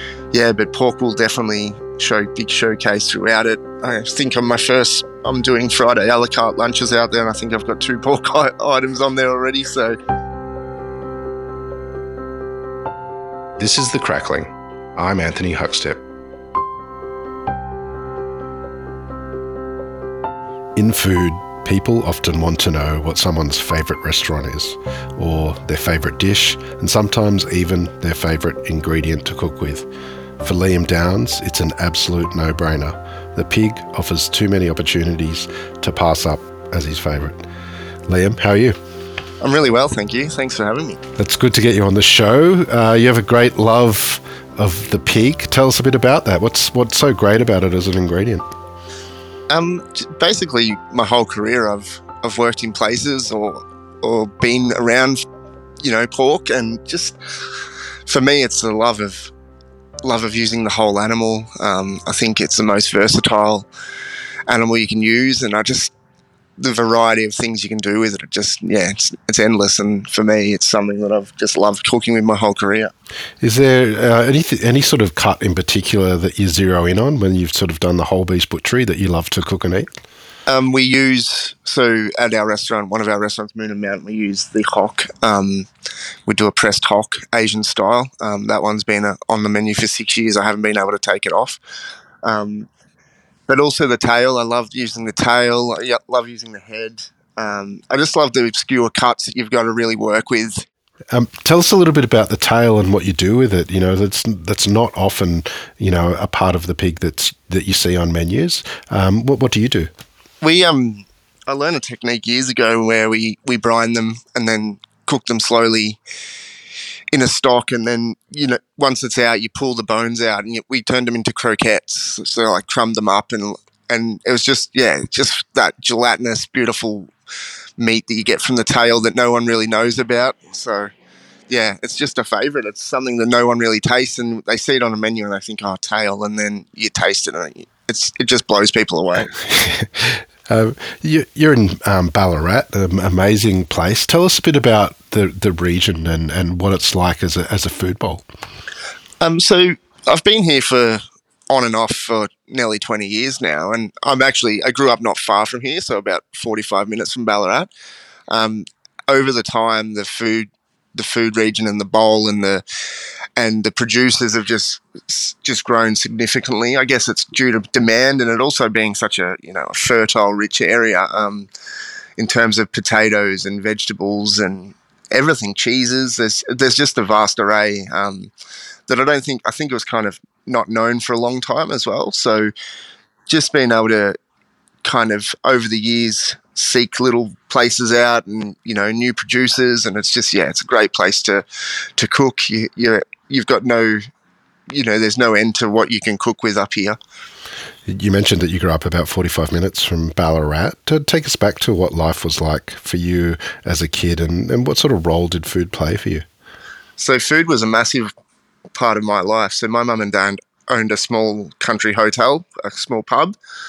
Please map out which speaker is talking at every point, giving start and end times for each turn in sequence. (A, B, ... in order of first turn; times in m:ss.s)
0:00.3-0:10.0 A
0:13.6-0:16.0 B
0:20.8-0:29.8 B
0:30.4-0:37.4 B
0:38.1-0:38.8 B
0:39.4-0:41.0 A
0:41.2-0:48.4 B
0:49.5-0:55.2 A
0:55.8-0:57.2 A
0:58.1-0:59.3 A
1:00.0-1:03.7 A
1:04.5-1:05.9 A
1:06.6-1:12.9 A
1:13.4-1:19.9 B
1:20.5-1:25.7 A
1:26.3-1:31.6 A
1:32.2-1:32.7 A
1:33.5-1:40.6 A
1:41.1-1:49.9 B
1:50.4-1:56.0 A
1:57.1-2:07.1 A
2:07.8-2:10.9 A
2:11.5-2:19.3 A
2:19.3-2:28.2 B
2:29.2-2:37.7 A
2:38.3-2:42.6 A
2:43.4-2:51.5 A
2:52.2-2:58.3 A
2:58.9-3:02.5 A
3:03.3-3:04.2 A
3:04.8-3:11.4 A
3:12.0-3:14.0 A
3:14.7-3:17.0 A
3:17.8-3:26.2 B
3:27.0-3:28.1 A
3:28.7-3:33.3 A